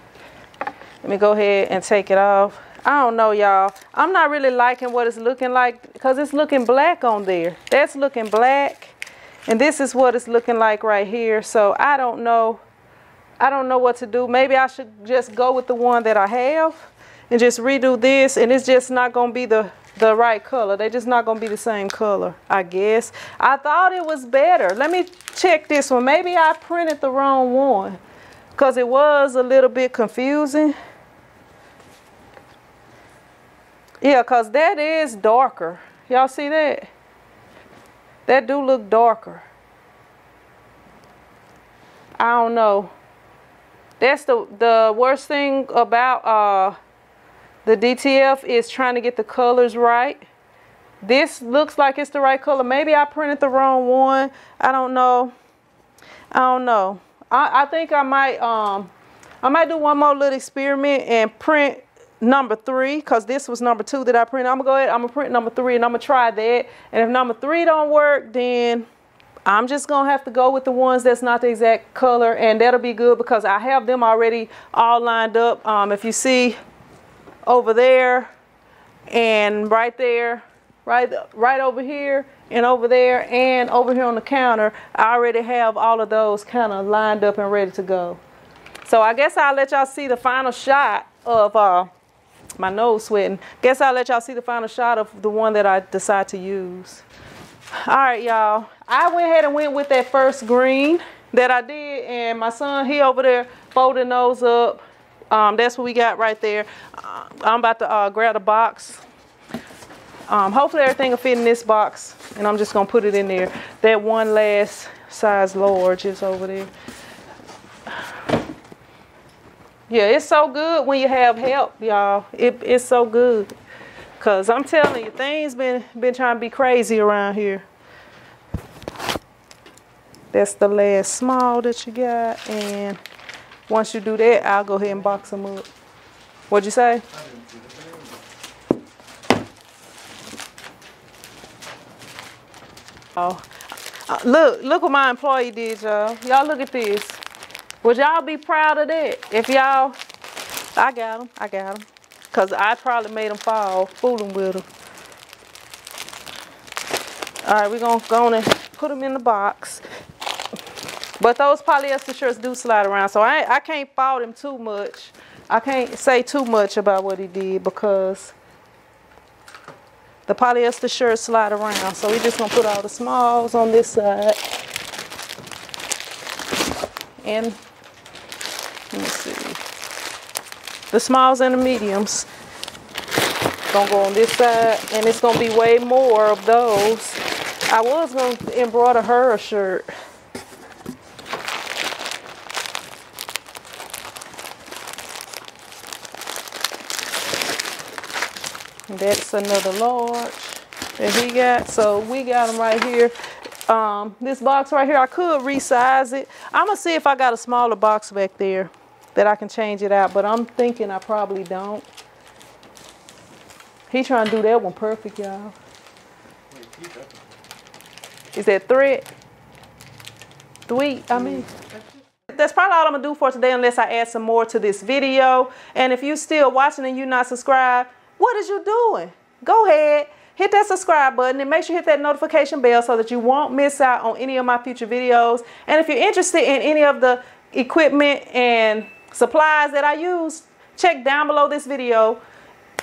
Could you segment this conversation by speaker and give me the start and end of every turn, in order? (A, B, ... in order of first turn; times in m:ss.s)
0:01.0-0:09.0 A
0:09.5-0:12.6 A
0:13.4-0:28.0 A
0:28.6-0:30.8 A
0:34.0-0:36.9 A
0:38.3-0:39.5 A
0:42.2-0:42.9 A
0:44.0-0:46.8 A
0:47.6-0:50.3 A
0:51.0-0:55.3 A
0:56.3-0:58.9 A
0:59.4-1:08.9 A
1:09.5-1:16.6 A
1:17.4-1:18.3 A
1:19.1-1:28.2 A
1:28.8-1:31.9 A
1:32.6-1:37.0 A
1:37.8-1:49.0 A
1:50.3-1:56.7 A
1:59.9-2:03.5 A
2:04.2-2:07.6 A
2:10.3-2:13.0 A
2:13.7-2:15.7 A
2:16.5-2:17.0 A
2:23.2-2:23.4 A
2:24.1-2:27.2 A
2:27.8-2:30.0 A
2:30.8-2:34.7 A
2:37.4-2:39.8 A
2:41.2-2:48.4 A
2:50.3-2:54.4 A
2:57.2-2:57.6 A
2:58.9-2:59.6 A
3:00.9-3:02.3 A
3:03.7-3:09.9 A
3:18.9-3:23.1 A
3:23.7-3:31.9 A
3:33.9-3:35.6 A
3:38.3-3:39.1 A
3:40.7-3:41.5 A
3:42.3-4:02.2 A